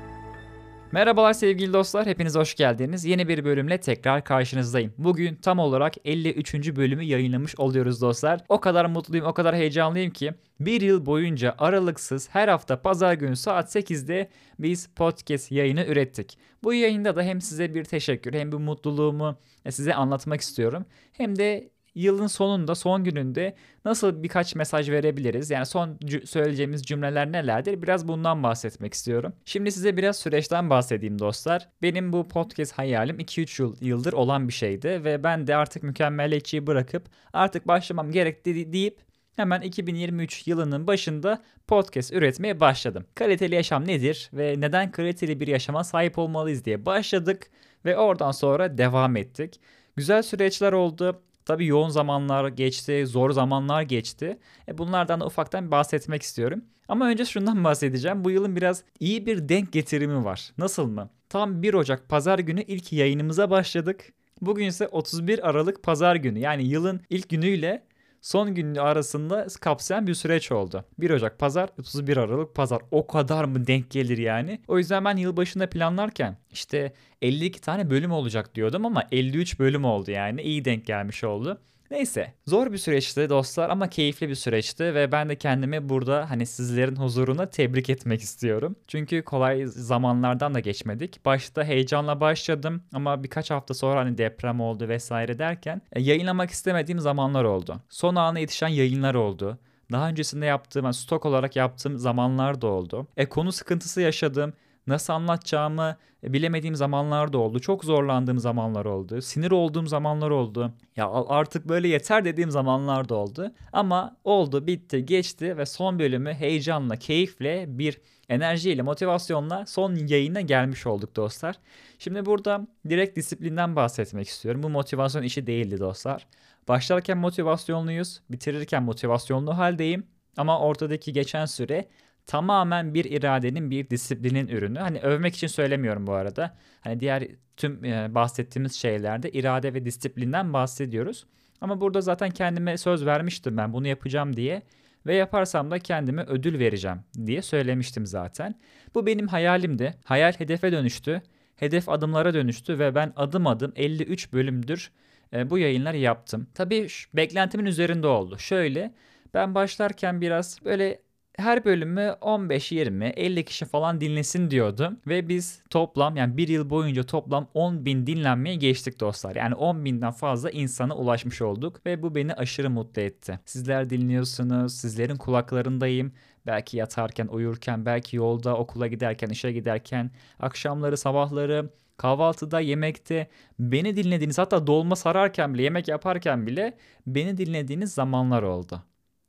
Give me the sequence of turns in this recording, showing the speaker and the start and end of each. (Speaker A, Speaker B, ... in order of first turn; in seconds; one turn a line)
Speaker A: 0.9-188.8